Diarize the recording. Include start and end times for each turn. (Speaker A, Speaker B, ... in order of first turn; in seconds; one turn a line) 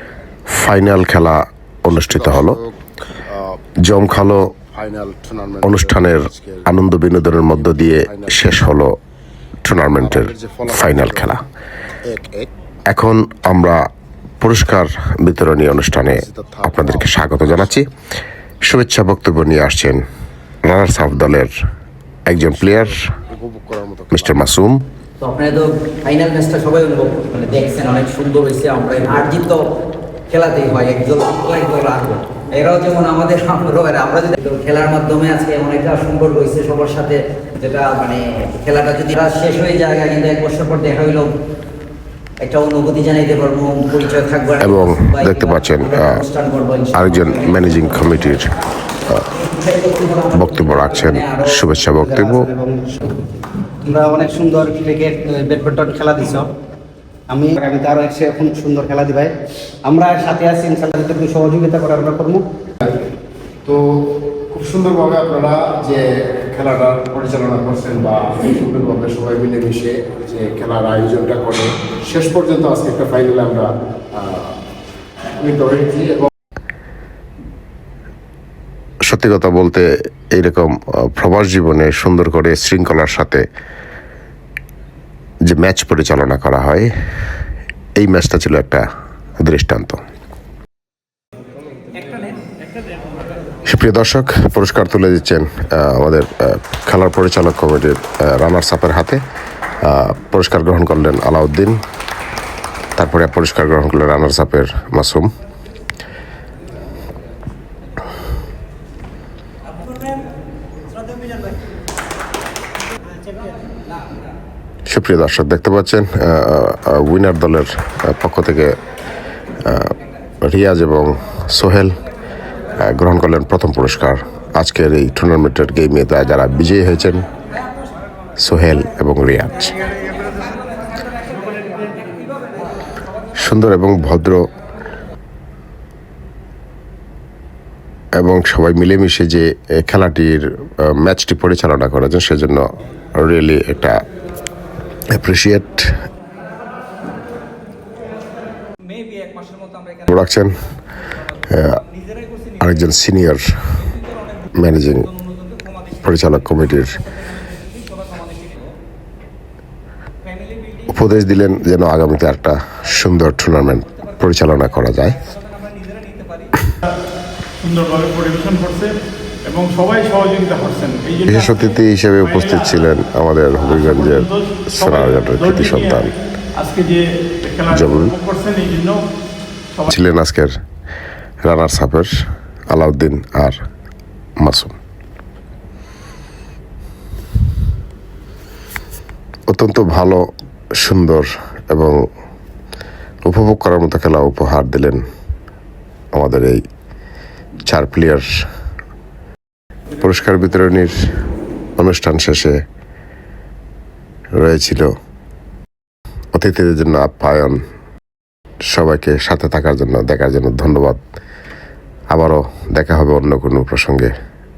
Speaker A: 0.5-2.6
Speaker B: 1.9-2.8
Speaker B: 3.3-3.6
Speaker A: 3.9-4.5
Speaker B: 4.7-8.6
Speaker A: 5.6-8.9
Speaker A: 9.6-11.4
Speaker B: 10.0-11.4
Speaker B: 12.1-12.5
Speaker A: 12.9-13.9
Speaker A: 14.4-17.9
Speaker B: 15.9-17.8
Speaker A: 18.6-20.0
Speaker A: 20.6-21.5
Speaker A: 22.3-23.1
Speaker B: 22.3-24.5
Speaker A: 24.1-24.8
Speaker C: 25.2-29.6
Speaker C: 30.3-41.3
Speaker C: 42.4-48.4
Speaker A: 44.6-46.2
Speaker A: 47.0-48.5
Speaker C: 49.3-51.6
Speaker A: 50.3-52.5
Speaker D: 51.9-53.2
Speaker D: 53.8-56.5
Speaker D: 57.3-59.3
Speaker D: 59.9-62.5
Speaker B: 63.6-74.5
Speaker B: 75.4-76.3
Speaker A: 79.1-83.5
Speaker A: 85.5-86.9
Speaker A: 88.0-88.9
Speaker A: 89.4-90.0
Speaker A: 93.7-99.2
Speaker A: 99.8-101.8
Speaker A: 103.0-105.3
Speaker A: 114.9-118.8
Speaker A: 119.6-122.0
Speaker A: 122.8-127.3
Speaker A: 128.4-129.8
Speaker A: 133.4-134.5
Speaker A: 138.2-144.0
Speaker A: 145.1-145.9
Speaker A: 150.1-150.5
Speaker A: 151.5-151.8
Speaker A: 152.6-153.5
Speaker A: 154.6-155.1
Speaker A: 155.9-157.4
Speaker A: 160.9-165.3
Speaker E: 167.6-168.9
Speaker E: 169.5-171.5
Speaker A: 171.3-176.1
Speaker E: 172.2-172.6
Speaker E: 173.8-176.0
Speaker E: 176.6-179.0
Speaker A: 177.7-178.1
Speaker A: 179.9-180.5
Speaker A: 181.4-182.1
Speaker A: 182.7-183.6
Speaker A: 184.4-184.8
Speaker A: 189.5-190.2
Speaker A: 190.8-192.0
Speaker A: 193.2-195.0
Speaker A: 196.1-196.6
Speaker A: 197.7-198.3
Speaker A: 200.0-200.9
Speaker A: 201.8-202.6
Speaker A: 204.4-204.9
Speaker A: 206.3-207.6
Speaker A: 208.7-211.0
Speaker A: 212.1-214.1